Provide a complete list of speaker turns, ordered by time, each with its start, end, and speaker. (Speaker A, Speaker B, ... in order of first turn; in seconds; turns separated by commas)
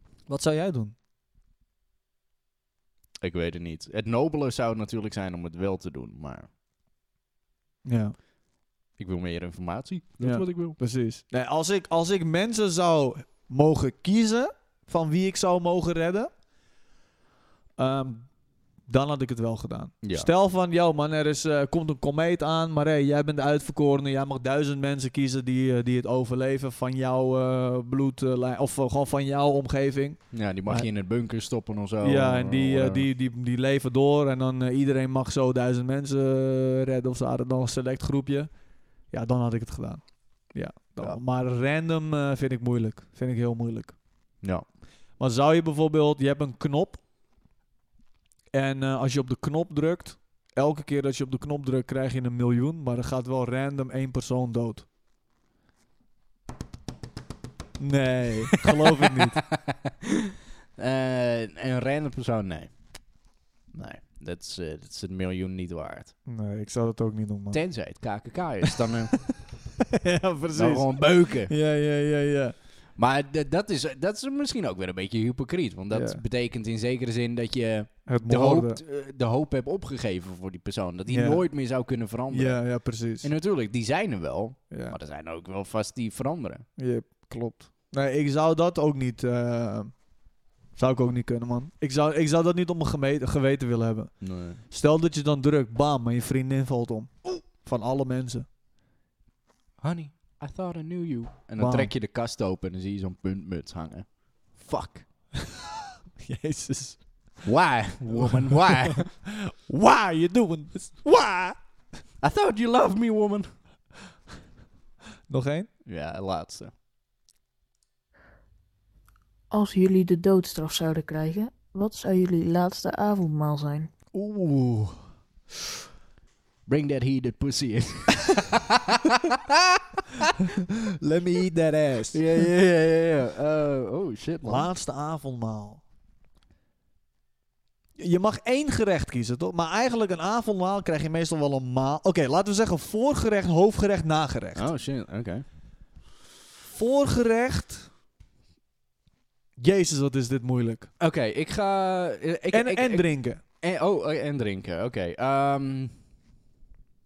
Speaker A: 0.3-0.9, Speaker B: 3.2-6.5, Speaker A: 7.8-8.2, Speaker B: 9.0-10.8, Speaker A: 10.2-16.3, Speaker A: 17.8-18.3, Speaker A: 18.9-30.9, Speaker B: 20.0-20.3, Speaker B: 30.3-33.0, Speaker A: 32.0-38.5, Speaker A: 39.1-44.0, Speaker A: 45.2-47.0, Speaker A: 48.5-54.9, Speaker A: 57.8-59.4, Speaker B: 59.1-59.9, Speaker B: 60.8-62.7, Speaker B: 63.7-66.1, Speaker A: 66.3-67.6, Speaker B: 67.5-69.1, Speaker A: 69.8-72.5, Speaker B: 70.5-71.5, Speaker B: 73.0-82.6, Speaker A: 75.9-76.2, Speaker A: 78.1-78.8, Speaker A: 81.1-81.4, Speaker A: 82.3-83.3, Speaker B: 83.2-86.7, Speaker A: 84.7-85.0, Speaker A: 86.8-89.9, Speaker A: 90.8-98.5, Speaker B: 94.2-94.6, Speaker B: 99.8-105.0, Speaker A: 101.6-101.9, Speaker A: 105.4-107.0, Speaker B: 107.4-109.1, Speaker A: 108.0-111.6, Speaker B: 112.2-113.5, Speaker A: 115.3-115.7, Speaker B: 115.9-116.7, Speaker C: 119.5-123.9, Speaker A: 124.1-125.0, Speaker B: 126.7-130.3, Speaker A: 130.9-132.4, Speaker B: 132.1-134.7, Speaker A: 134.4-135.8, Speaker A: 138.0-144.7, Speaker B: 144.6-145.4, Speaker A: 146.7-147.9, Speaker A: 149.6-150.9, Speaker B: 151.0-155.9, Speaker A: 152.5-153.4